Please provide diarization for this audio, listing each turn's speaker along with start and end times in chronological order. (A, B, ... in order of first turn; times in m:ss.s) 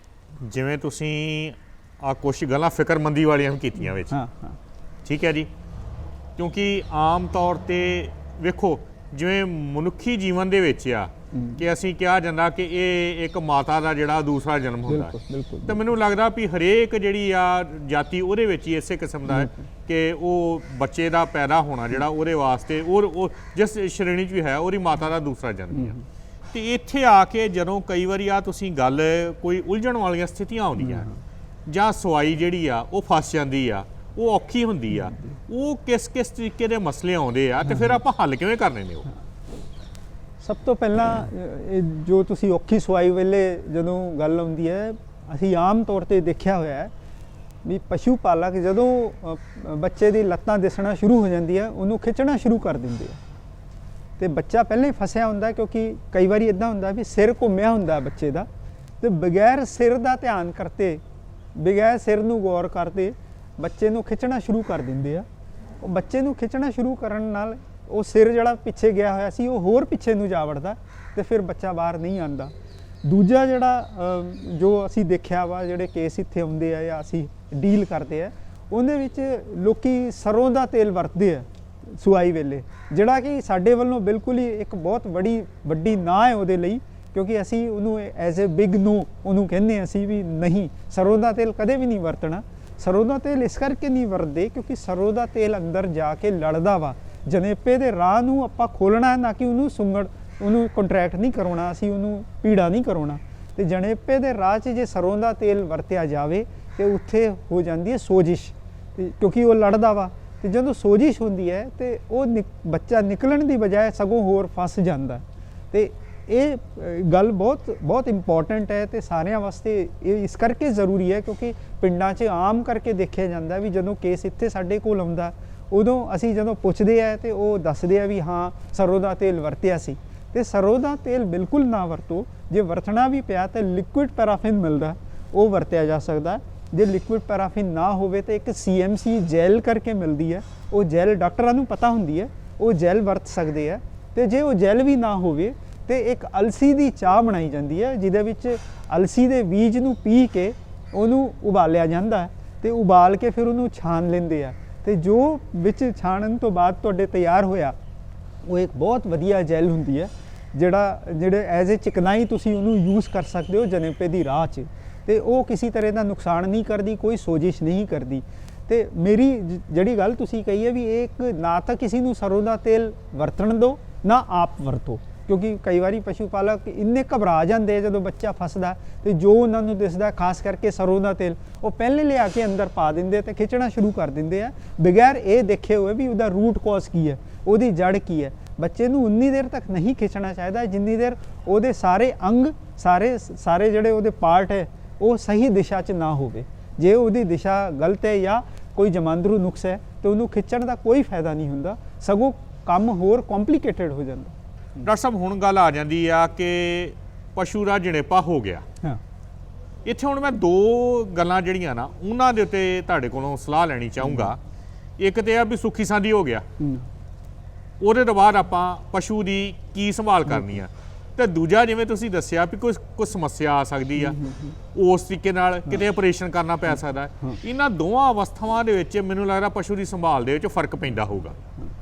0:00.4-0:04.2 A
0:04.1-0:04.6 B
0:05.0-0:05.5 A
0:06.4-0:15.2 A
0:11.3-0:11.6 B
0:14.9-0:15.8 B
0:15.7-0:26.0 A
0:19.3-0:19.6 B
0:26.5-0:31.1 A
0:30.9-0:31.2 B
0:31.6-0:39.1 A
0:40.4-0:46.9 B
0:47.6-0:53.2 B
0:54.2-0:58.5 B
0:59.0-1:01.0 B
1:01.5-1:05.2 B
1:05.8-1:12.5 B
1:13.0-2:37.8 B
2:38.4-3:24.8 B
3:24.8-3:28.6 A
3:29.8-3:34.4 A
3:35.0-3:36.5 A
3:36.6-3:36.9 B
3:37.8-3:44.2 A
3:44.0-3:44.5 B
3:44.7-3:51.4 A